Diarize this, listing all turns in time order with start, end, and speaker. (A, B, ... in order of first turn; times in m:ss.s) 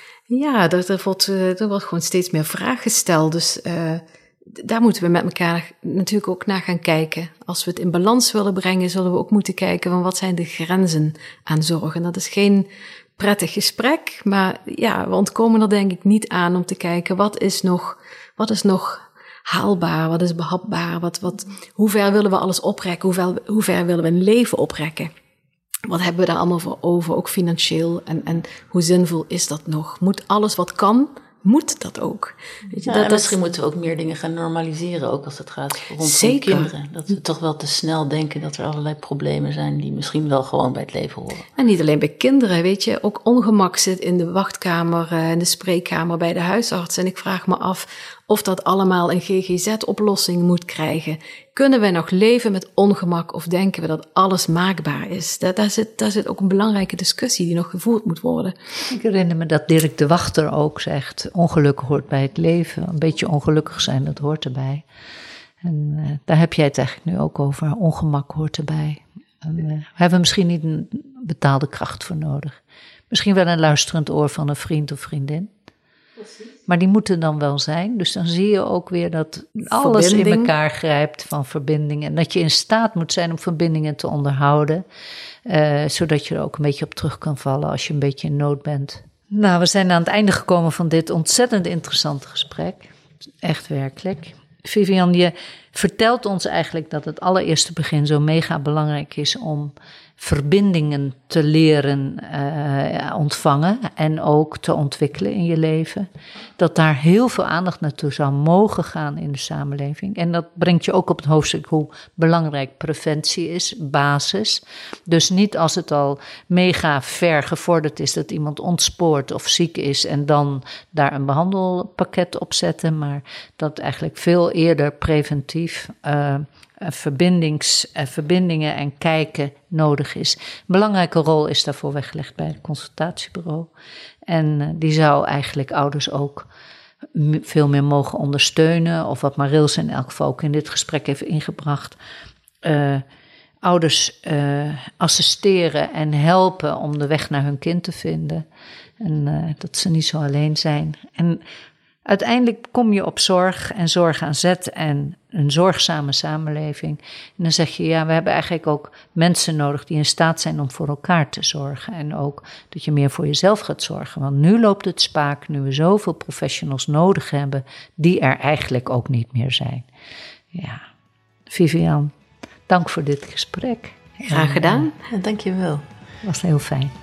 0:00.3-0:25.1 A
0:25.9-0:33.4 A
0:32.8-0:41.4 B
0:36.0-0:36.7 A
0:41.6-0:58.5 A
0:58.9-1:04.8 C
1:05.6-1:15.5 C
1:16.6-1:24.8 C
1:19.6-1:20.5 A
1:25.4-1:32.9 C
1:33.4-2:13.7 C
2:14.2-2:16.5 C
2:17.1-2:22.0 C
2:22.6-2:23.0 C
2:23.6-2:28.4 C
2:29.0-2:31.4 C
2:32.0-2:49.9 C
2:50.5-2:50.8 C
2:51.5-2:52.1 C
2:52.7-2:54.9 C
2:54.2-2:54.9 A
2:55.1-2:55.8 B
2:56.2-2:56.9 C